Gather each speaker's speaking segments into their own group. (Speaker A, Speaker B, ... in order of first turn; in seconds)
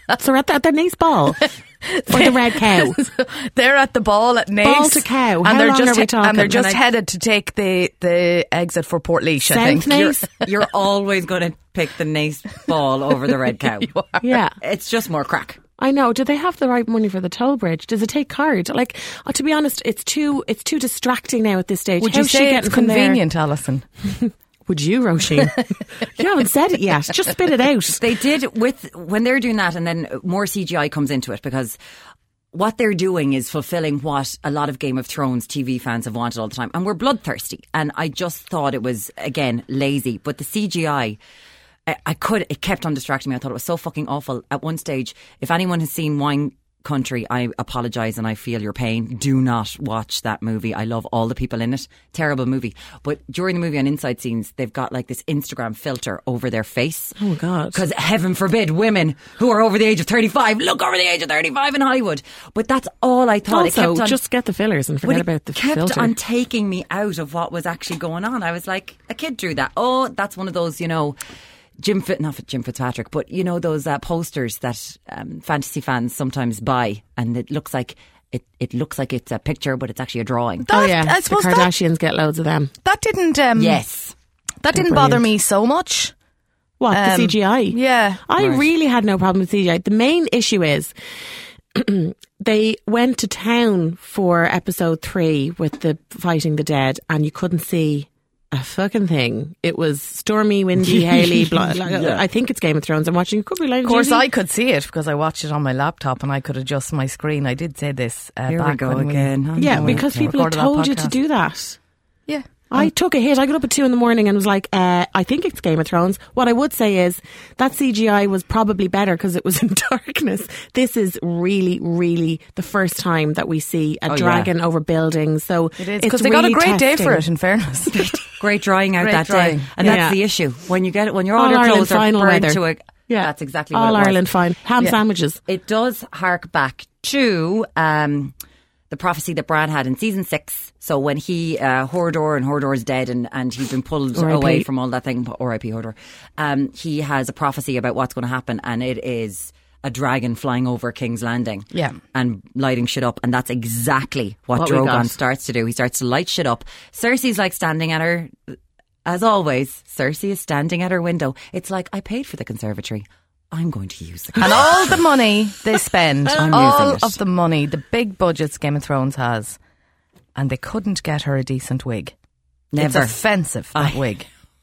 Speaker A: 0.2-1.4, 2.1-3.1, 4.6-6.8, 9.5-10.3, 14.2-14.6, 15.8-23.2, 24.1-28.0, 57.2-57.8, 63.5-66.1, 80.7-82.7, 84.8-85.2, 86.8-90.9, 91.7-104.3, 109.6-111.8, 112.7-127.2, 129.8-130.2, 131.4-135.4, 144.2-144.7, 154.6-155.1
Speaker B: 1.9-9.9, 13.9-14.2, 22.0-23.9, 80.7-81.7, 82.8-83.8, 84.6-86.1, 86.9-88.2, 103.8-111.1, 125.8-128.0, 129.0-130.0, 164.4-169.6, 170.4-172.1, 172.8-174.3
Speaker C: 9.9-14.0, 14.6-15.6, 27.9-31.8, 32.5-41.2, 41.9-57.2, 57.7-64.2, 65.0-71.2, 71.8-80.7, 83.6-84.1, 88.4-88.6, 100.9-102.2, 108.5-110.3, 124.1-124.5, 128.4-134.2, 135.5-138.3, 138.9-164.9, 166.3-167.2, 172.7-173.2, 173.7-174.0